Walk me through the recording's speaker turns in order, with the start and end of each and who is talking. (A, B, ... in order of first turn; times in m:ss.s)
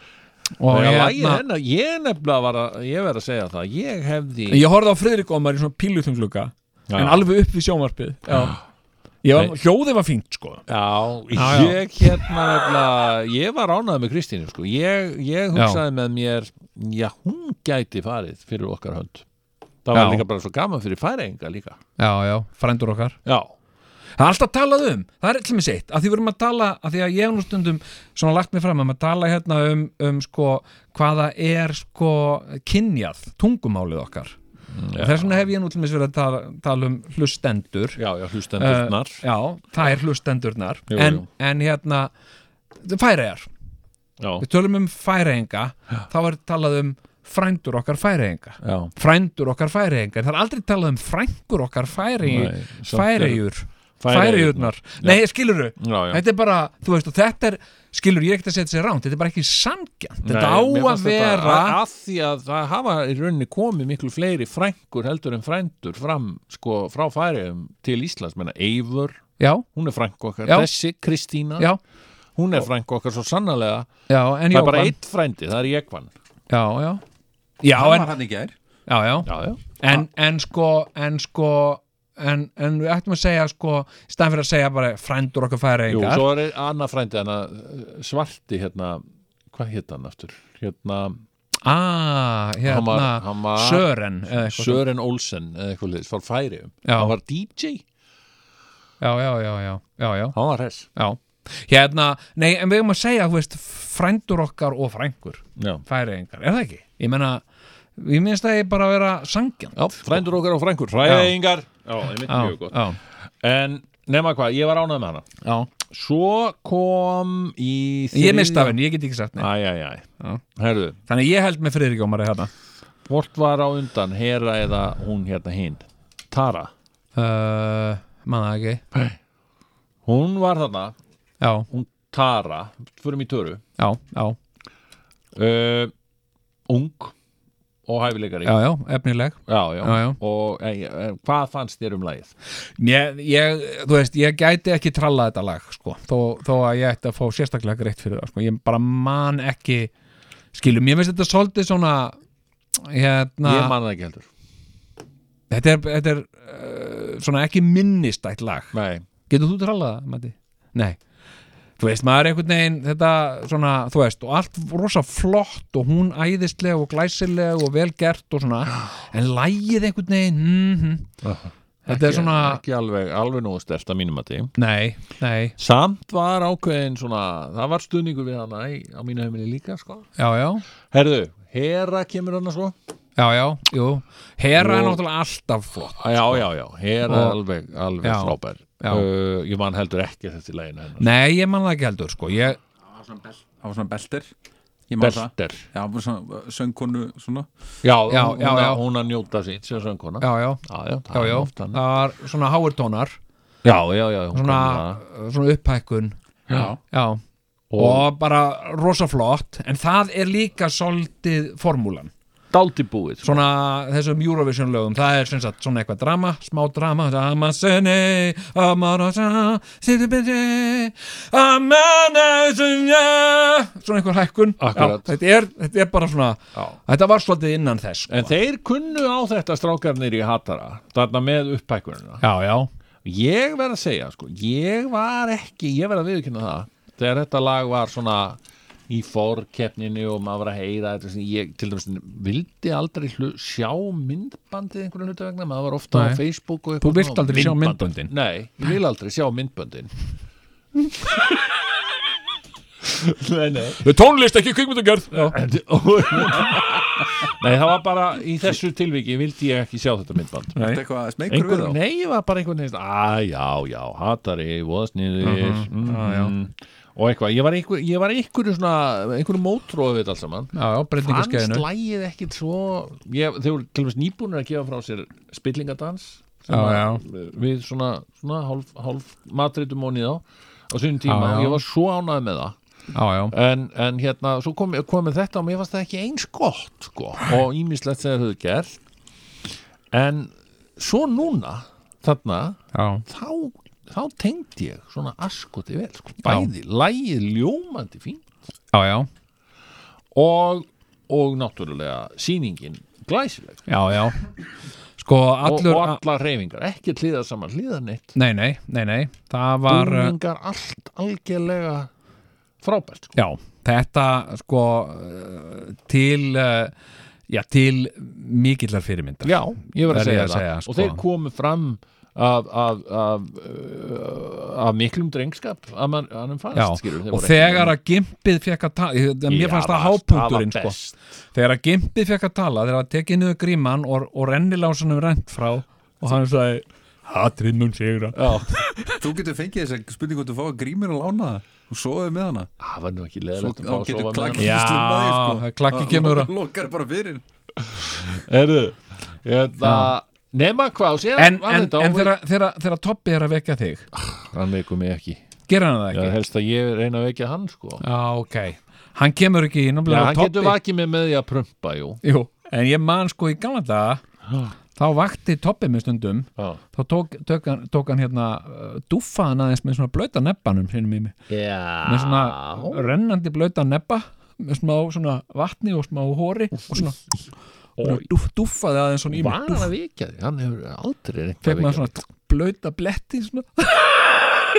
0:00.6-0:01.4 A
0:00.7-0:04.6 B
0:04.5-0:08.6 A
0:06.9-0:07.3 B
0:09.2-0:10.6 A
0:10.7-0:19.2 B
0:11.3-0:11.8 A
0:15.5-0:15.8 A
0:19.8-0:21.8 B
0:19.9-0:20.2 A
0:22.0-0:23.2 A
0:24.2-0:34.4 A
0:34.7-0:35.4 B
0:34.9-0:38.0 A
0:38.0-0:39.2 B
0:38.6-0:42.1 A
0:40.9-0:41.2 B
0:42.8-0:43.5 A
0:44.2-0:44.4 B
0:44.4-1:01.8 A
0:48.6-0:48.9 B
0:52.2-0:53.4 B
0:54.0-0:55.2 B
0:55.8-0:56.2 B
1:00.2-1:09.2 B
1:09.4-1:09.6 A
1:09.7-1:11.7 B
1:10.4-1:10.7 A
1:12.4-1:13.9 B
1:14.1-1:15.0 A
1:14.5-1:16.1 B
1:16.5-1:17.0 A
1:17.6-1:18.1 A
1:17.7-1:18.5 C
1:18.9-1:26.2 A
1:19.2-1:20.0 B
1:25.9-1:31.2 B
1:31.6-1:34.8 A
1:32.6-1:37.8 B
1:36.8-1:37.1 A
1:39.0-1:40.4 A
1:40.3-1:40.9 B
1:40.9-1:47.4 A
1:45.6-1:45.8 B
1:48.0-1:50.2 A
1:49.7-1:52.8 B
1:51.0-1:51.3 A
1:52.2-1:53.0 A
1:53.4-1:55.3 B
1:55.4-1:55.7 A
1:55.8-1:58.8 B
1:58.1-1:59.5 A
1:59.4-2:01.0 B
2:01.1-2:02.5 A
2:03.1-2:06.7 B
2:07.2-2:08.8 A
2:10.0-2:11.0 B
2:11.4-2:11.7 A
2:11.7-2:13.6 B
2:13.8-2:14.4 A
2:15.3-2:15.9 B
2:16.7-2:17.1 B
2:17.9-2:18.6 B
2:18.4-2:20.2 A
2:19.5-2:22.3 B
2:22.8-2:29.9 A
2:30.5-2:32.2 A
2:32.8-2:33.7 A
2:33.4-2:34.3 B
2:35.5-2:38.7 A
2:38.7-2:39.0 B
2:39.3-2:41.0 A
2:41.8-2:51.1 A
2:51.2-2:54.5 B
2:51.8-2:52.6 A
2:54.6-2:55.6 A
2:55.6-3:00.1 B
3:00.2-3:00.6 A
3:00.9-3:02.7 B
3:03.2-3:06.4 A
3:04.6-3:05.0 B
3:06.0-3:11.1 B
3:07.0-3:07.4 A
3:08.0-3:09.0 A
3:11.0-3:12.6 A
3:13.6-3:14.3 C
3:14.9-3:17.5 C
3:15.0-3:15.6 B
3:17.8-3:21.8 B
3:18.1-3:18.8 A
3:20.2-3:23.2 A
3:23.6-3:25.0 B
3:24.3-3:26.2 A
3:26.9-3:27.2 A
3:27.7-3:28.0 B
3:27.8-3:32.1 A
3:32.5-3:33.4 B
3:33.2-3:48.3 A
3:44.6-3:45.1 B
3:48.1-3:52.2 B
3:52.2-3:52.7 A
3:53.0-3:58.4 B
3:58.9-4:09.9 B
4:05.9-4:06.2 A
4:06.8-4:08.1 A
4:12.8-4:13.8 B
4:13.8-4:15.4 A
4:15.1-4:20.6 B
4:20.6-4:21.8 C
4:21.3-4:42.5 B
4:25.2-4:26.3 A
4:30.5-4:31.6 A
4:36.5-4:37.0 A
4:41.0-4:41.6 A
4:42.9-4:43.3 A
4:43.3-4:48.8 B
4:49.9-4:58.2 B
4:52.7-4:53.0 A
4:56.2-4:56.5 A
4:58.7-4:59.1 A
5:00.1-5:03.6 B
5:03.7-5:04.3 A
5:05.0-5:06.0 A
5:05.4-5:08.1 B
5:08.1-5:10.2 A
5:09.7-5:11.9 B
5:12.6-5:13.2 B
5:13.1-5:16.7 A
5:17.3-5:21.0 A
5:19.2-5:27.7 B
5:26.5-5:30.8 A
5:29.3-5:31.0 B
5:31.3-5:39.0 A
5:38.1-5:38.5 B
5:39.0-5:42.5 C
5:42.6-5:44.6 B
5:43.4-5:47.2 C
5:44.4-5:46.3 A
5:47.7-5:52.1 B
5:49.6-5:49.9 A
5:51.2-5:53.9 A
5:53.9-5:55.2 B
5:55.5-5:56.2 A
5:55.9-5:57.8 B
5:57.8-6:00.6 A
5:59.9-6:02.0 B
6:02.0-6:04.0 A
6:04.8-6:11.1 A
6:11.3-6:12.8 B
6:11.8-6:17.0 A
6:17.8-6:18.1 B
6:17.8-6:19.7 A
6:19.1-6:21.9 B
6:21.4-6:24.4 A